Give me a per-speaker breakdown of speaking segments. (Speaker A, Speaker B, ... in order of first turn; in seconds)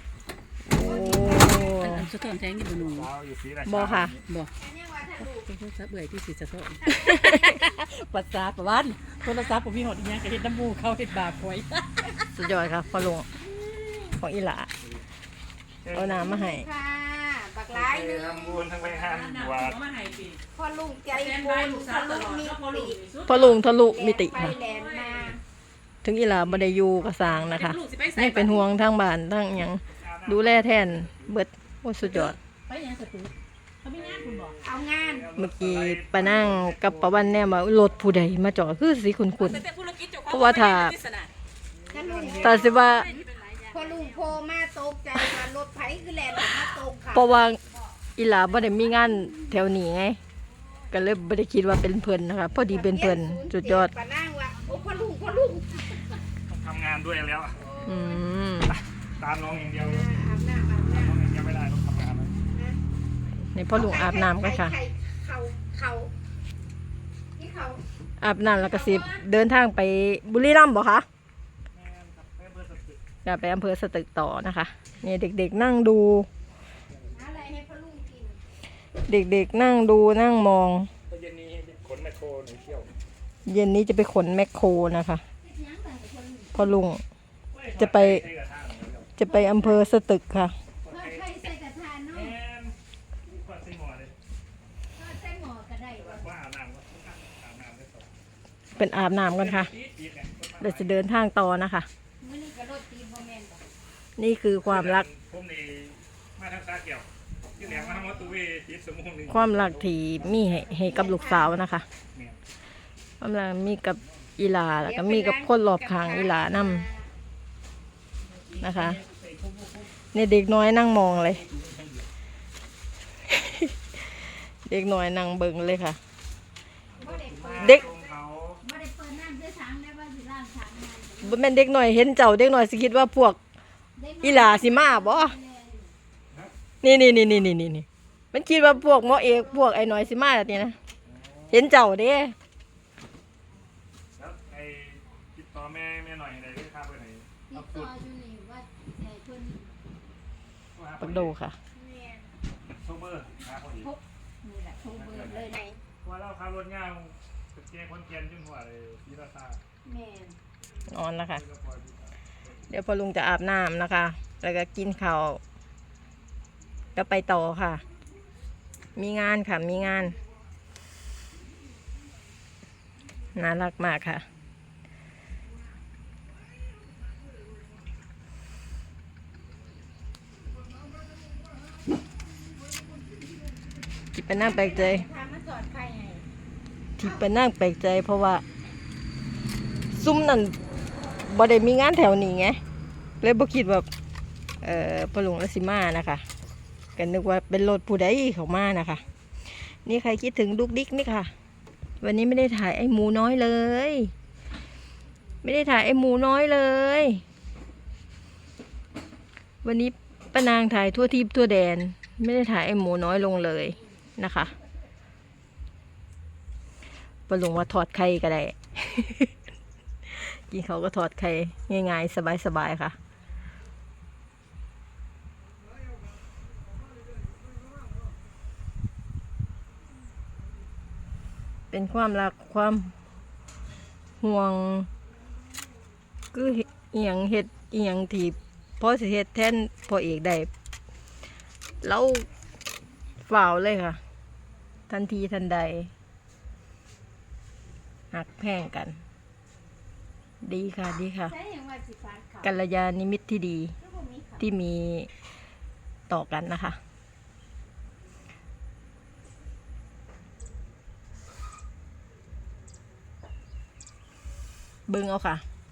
Speaker A: 0.7-2.1, 3.7-4.1, 12.3-13.3, 14.1-14.7, 15.9-16.7, 23.3-24.6, 26.0-32.4, 35.4-39.6, 40.3-41.0, 42.3-43.1, 47.1-47.6, 48.2-50.2, 50.9-53.9, 57.9-58.8, 63.4-64.8, 68.2-71.1, 73.2-76.3, 79.0-80.9, 83.5-85.2, 86.5-87.0, 87.8-88.2, 89.2-90.5, 98.8-99.7, 100.6-101.9, 104.2-105.1, 109.3-111.9, 113.2-116.9, 118.6-119.0, 120.1-121.5, 123.3-126.0, 127.6-127.9, 131.2-133.4, 134.2-135.4, 136.8-140.8, 141.5-142.3, 151.0-151.6, 160.9-161.4, 162.7-165.4, 166.9-167.8, 169.0-170.2, 173.3-174.2, 184.1-185.1, 187.0-188.4, 189.9-190.6, 191.2-192.6, 193.2-193.9, 194.6-196.2, 197.0-201.3, 202.0-204.1, 205.4-207.2, 209.6-214.5, 217.3-219.3, 220.1-223.0, 231.7-232.9, 234.2-234.9, 236.3-240.5, 241.8-242.3, 243.3-244.0, 244.9-245.9, 248.1-249.0, 250.4-251.3, 252.4-253.7, 254.4-255.1, 256.1-256.8, 264.9-265.4
Speaker B: 0.8-2.6, 4.5-5.5, 6.8-7.3, 16.2-18.6, 20.5-23.0, 23.7-25.4, 34.6-35.3, 41.9-43.1, 43.7-47.8, 48.6-49.3, 52.6-56.2, 57.6-58.2, 59.8-61.2, 62.5-62.8, 63.7-66.1, 67.4-67.8, 68.5-69.2, 77.1-78.4, 85.4-86.7, 89.2-89.9, 90.9-92.3, 95.0-96.3, 102.2-103.6, 107.6-108.3, 110.6-111.5, 114.8-117.1, 127.0-128.0, 128.6-131.4, 134.0-135.9, 138.5-140.1, 147.5-149.8, 151.7-152.4, 153.8-155.8, 159.8-160.4, 184.3-186.3, 251.3-252.6, 253.8-254.4
Speaker C: 1.3-3.1, 4.2-4.5, 5.3-12.2, 18.8-20.4, 21.1-23.6, 24.2-25.4, 27.3-28.7, 32.0-34.6, 39.4-41.3, 42.1-44.4
Speaker D: 2.7-4.2, 15.8-16.3, 17.7-19.8, 29.9-31.4, 33.9-37.6, 41.7-42.8, 56.5-57.6, 59.2-60.1, 60.9-62.3, 71.7-73.0, 76.9-77.4, 81.1-82.9, 87.5-89.1, 90.8-91.3, 92.1-92.8, 93.3-94.2, 95.9-98.1, 99.3-101.0, 104.6-110.5, 112.1-112.4, 119.0-119.8, 121.5-122.1, 127.0-128.6, 141.1-141.6, 144.2-147.9, 150.7-151.4, 152.8-153.9, 154.9-159.6, 161.3-162.2